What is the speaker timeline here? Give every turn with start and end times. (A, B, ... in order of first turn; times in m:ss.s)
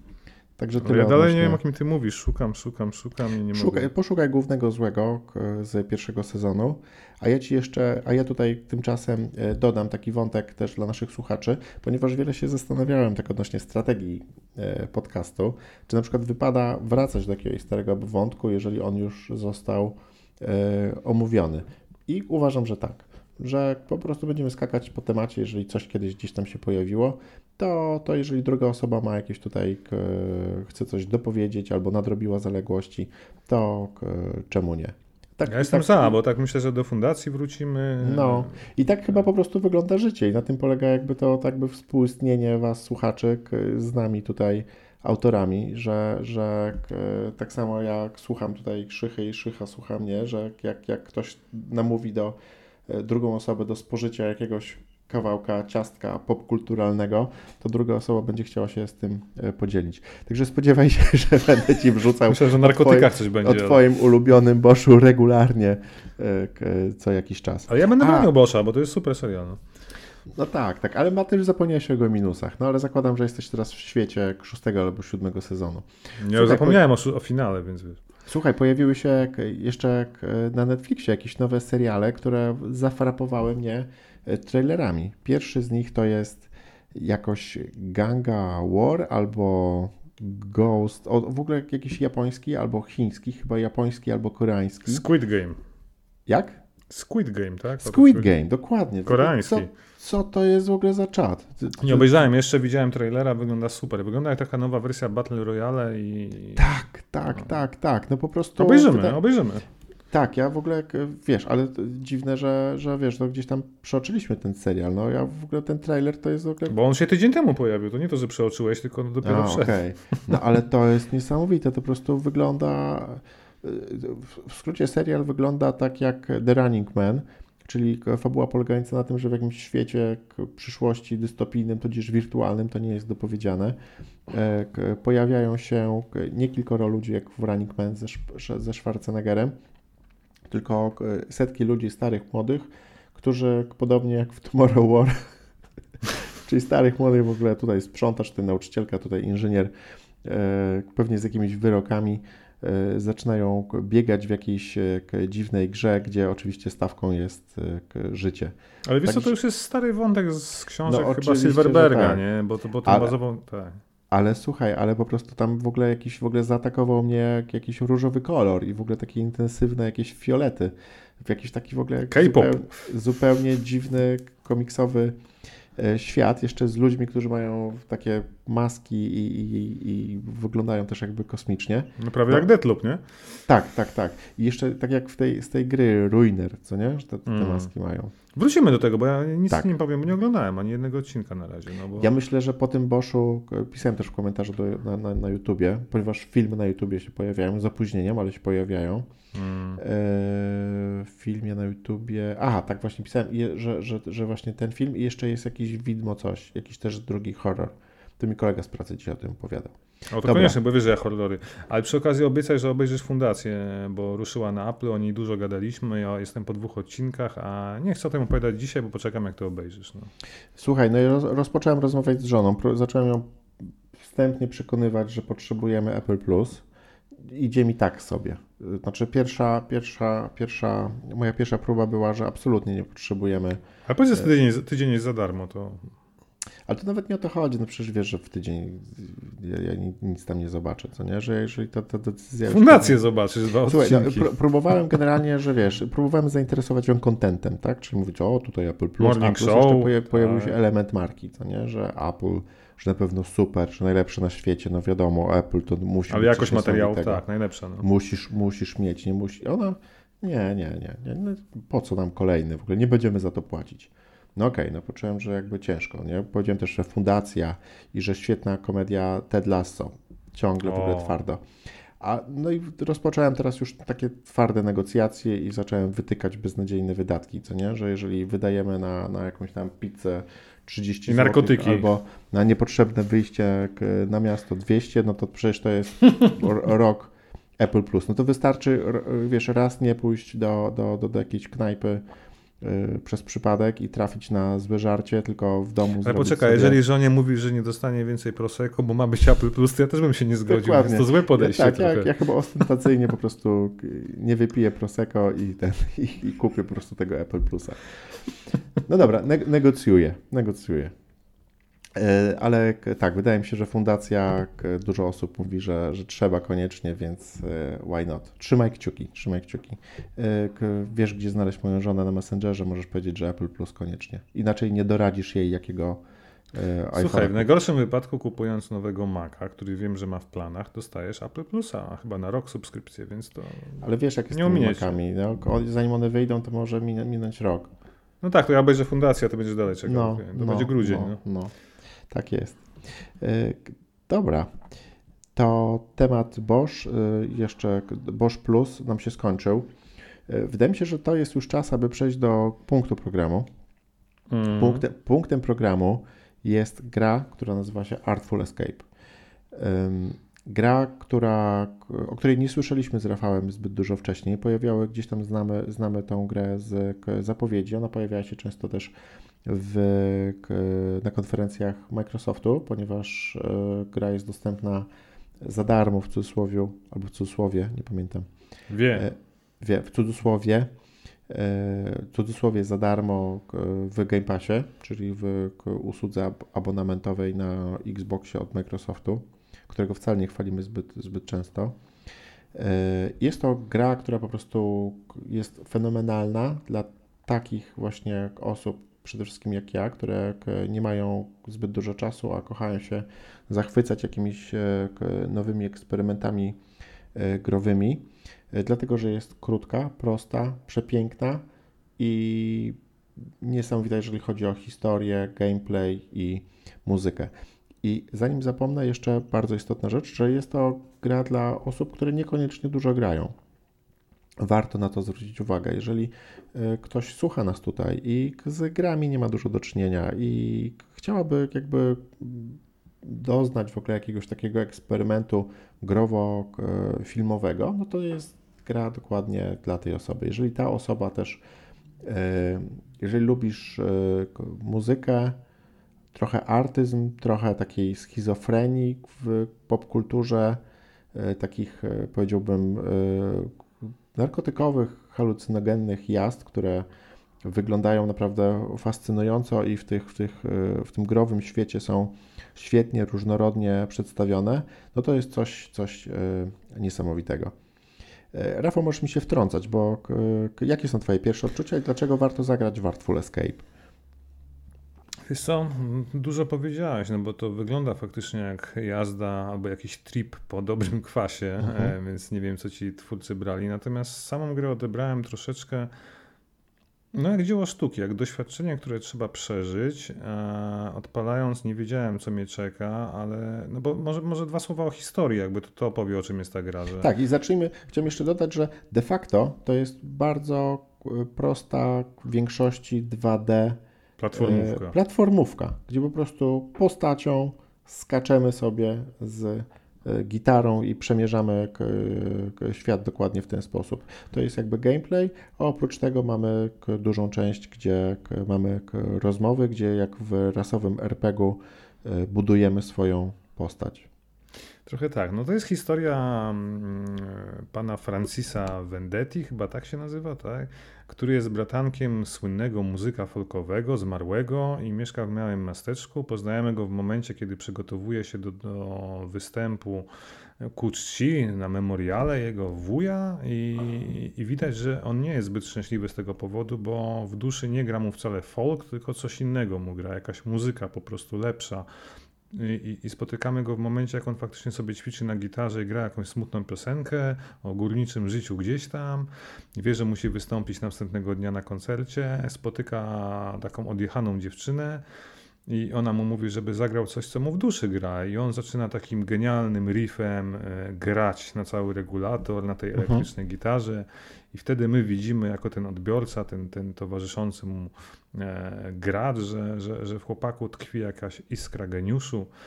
0:00.6-0:01.6 A
0:00.8-0:03.9 B
0:03.5-0:36.2 A
0:35.5-0:38.6 B
0:38.0-1:08.3 A
1:02.3-1:03.8 B
1:07.7-1:09.6 B
1:10.3-1:16.8 A
1:16.2-1:18.0 B
1:18.3-1:35.0 A
1:34.9-1:35.6 B
1:36.2-1:36.6 A
1:36.9-1:38.3 B
1:37.8-1:42.1 A
1:39.0-1:39.7 B
1:41.8-1:46.7 B
1:46.6-1:49.2 A
1:48.6-1:49.6 B
1:50.1-1:56.7 A
1:56.7-2:00.2 B
1:59.2-2:19.5 A
2:20.5-2:25.3 A
2:26.0-2:29.7 A
2:30.2-2:39.3 A
2:38.8-2:43.8 B
2:40.8-2:42.2 A
2:42.8-2:43.1 A
2:44.1-2:55.2 A
2:52.1-2:52.7 B
2:55.8-3:02.5 A
3:02.0-3:03.0 B
3:03.5-3:08.1 A
3:07.2-3:07.7 B
3:08.3-3:12.1 B
3:12.0-3:19.1 A
3:19.3-3:19.8 B
3:19.8-3:30.6 A
3:30.1-3:40.1 B
3:40.6-3:46.6 A
3:47.2-3:53.6 A
3:53.9-3:55.9 B
3:56.7-4:03.0 A
4:02.5-4:04.3 B
4:03.6-4:17.2 A
4:09.0-4:10.5 B
4:16.1-4:17.8 B
4:17.8-4:31.4 A
4:30.6-4:31.2 B
4:32.0-4:52.0 A
4:41.1-4:41.9 B
4:52.6-4:56.8 A
4:56.0-5:02.1 B
5:00.5-5:07.8 A
5:08.8-5:10.9 A
5:11.9-5:26.0 A
5:26.5-5:27.5 A
5:26.9-5:35.0 B
5:33.8-5:37.7 A
5:38.2-5:41.2 B
5:39.8-5:41.5 A
5:42.1-5:44.5 A
5:45.4-5:49.7 A
5:50.3-5:53.5 A
5:54.3-5:54.8 B
5:54.6-5:58.8 A
5:59.5-6:08.9 A
6:09.4-6:14.9 A
6:15.4-6:18.3 A
6:18.7-6:19.1 B
6:18.9-6:20.7 A
6:21.3-6:31.8 A
6:32.5-6:46.6 A
6:47.1-6:51.4 A
6:52.0-6:52.8 A
6:53.4-7:03.3 A
7:04.4-7:21.4 A
7:22.0-7:25.4 A
7:26.1-7:30.6 A
7:31.1-7:36.8 A
7:37.4-7:47.5 A
7:48.3-7:53.6 A
7:55.3-8:05.9 B
8:01.6-8:01.9 A
8:07.1-8:17.1 B
8:17.0-8:23.8 A
8:24.2-8:24.9 B
8:24.3-8:44.1 A
8:44.8-9:00.1 B
9:00.6-9:11.9 B
9:12.5-9:25.0 B
9:25.7-9:42.5 B
9:33.0-9:33.2 A